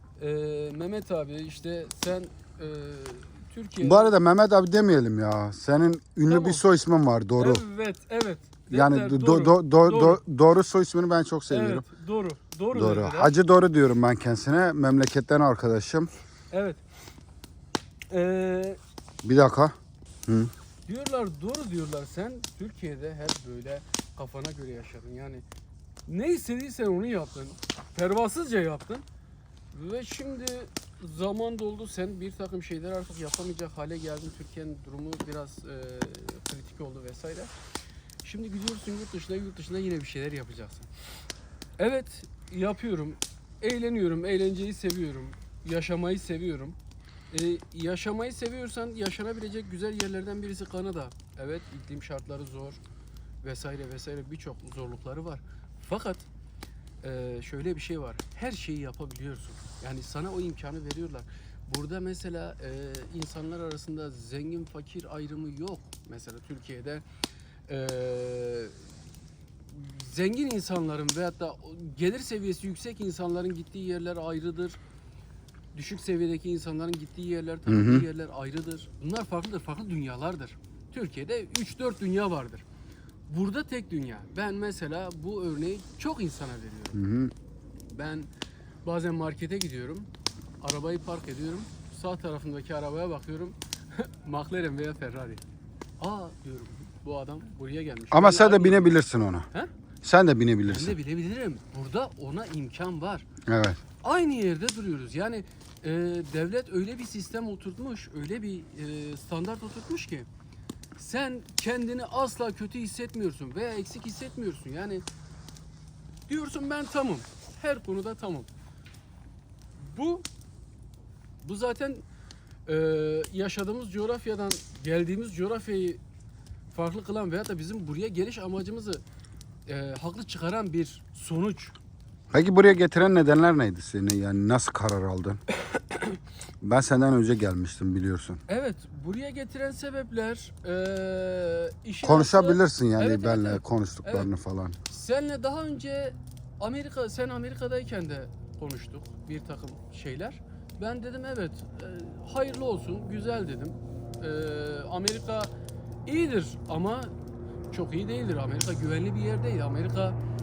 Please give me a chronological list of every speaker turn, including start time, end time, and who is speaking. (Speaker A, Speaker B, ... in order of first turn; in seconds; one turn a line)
Speaker A: 0.2-4.1
Speaker B: 3.8-7.6
Speaker A: 6.3-6.6
Speaker A: 7.4-10.2
Speaker B: 8.7-11.8
Speaker A: 11.5-13.3
Speaker B: 12.7-16.1
Speaker A: 16.5-16.8
Speaker A: 18.1-18.8
Speaker B: 19.2-19.7
Speaker B: 20.2-20.5
Speaker A: 20.9-25.4
Speaker A: 26.1-29.0
Speaker A: 29.7-37.5
Speaker A: 38.2-40.9
Speaker A: 41.8-46.8
Speaker A: 47.3-52.8
Speaker A: 53.4-56.3
Speaker A: 57.0-67.0
Speaker A: 67.7-68.9
Speaker A: 69.7-74.8
Speaker A: 75.7-82.6
Speaker B: 77.7-78.0
Speaker A: 83.3-87.0
Speaker B: 86.9-87.3
Speaker A: 87.9-88.3
Speaker A: 88.8-90.1
Speaker A: 90.6-95.4
Speaker A: 96.0-98.9
Speaker B: 98.1-99.5
Speaker B: 100.0-101.0
Speaker A: 100.7-103.3
Speaker B: 103.5-103.8
Speaker A: 104.0-110.3
Speaker A: 111.0-115.0
Speaker A: 116.3-118.5
Speaker A: 119.8-120.3
Speaker A: 121.4-122.0
Speaker A: 122.7-126.0
Speaker A: 126.7-129.0
Speaker A: 129.7-131.8
Speaker B: 132.3-135.4
Speaker B: 136.6-138.4
Speaker A: 138.5-144.3
Speaker B: 142.0-144.8
Speaker A: 144.9-155.5
Speaker A: 156.1-157.1
Speaker A: 157.7-160.2